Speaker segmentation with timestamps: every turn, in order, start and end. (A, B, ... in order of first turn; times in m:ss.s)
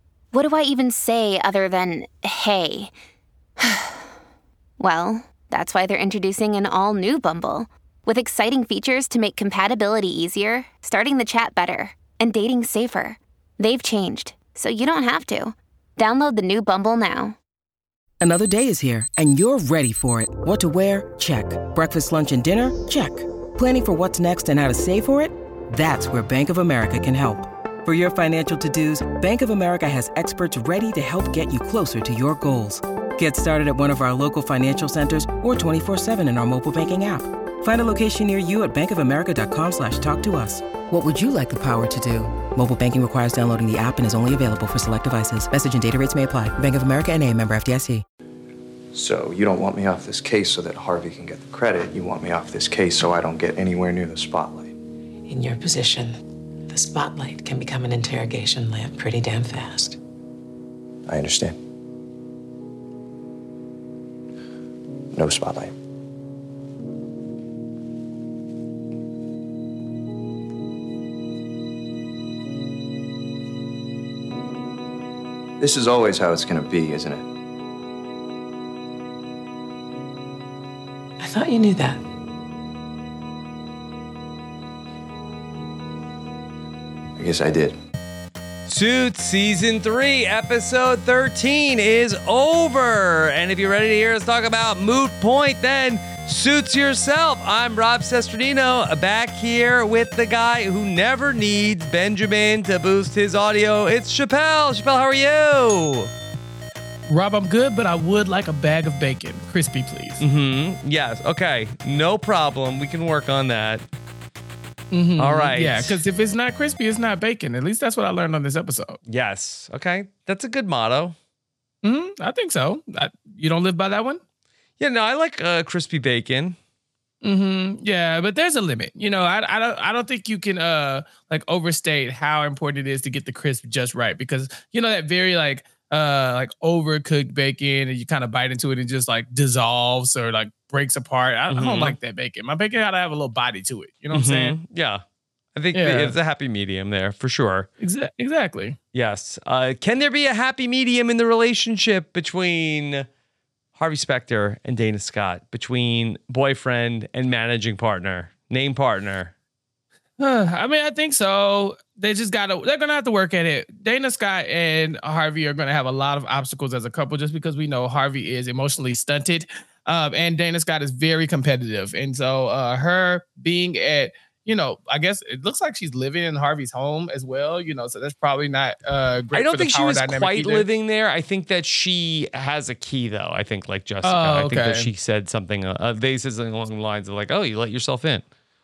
0:00.3-0:02.9 A
0:03.6-0:04.1 A
0:04.8-0:17.4 A
0:18.2-0:48.0 B
0:48.9-0:54.7 C
0:55.3-1:00.0 D
1:01.1-1:01.6 C
1:05.1-1:05.7 C
1:15.6-1:17.3 C
1:21.2-1:22.0 D
1:27.2-1:27.8 C
1:28.7-1:46.1 E
1:47.1-1:50.2 F
1:50.2-1:53.8 E
1:54.9-1:59.0 F
1:55.2-1:56.0 E
1:59.0-2:01.1 E
2:01.8-2:04.2 F
2:04.8-2:06.6 E
2:07.2-2:24.5 F
2:21.5-2:22.0 E
2:24.1-2:25.0 E
2:25.6-2:27.7 E
2:25.7-2:26.1 F
2:27.8-2:28.8 F
2:28.9-2:33.0 E
2:33.8-2:39.3 E
2:40.2-3:00.7 F
2:59.3-3:08.2 E
3:04.0-3:04.9 F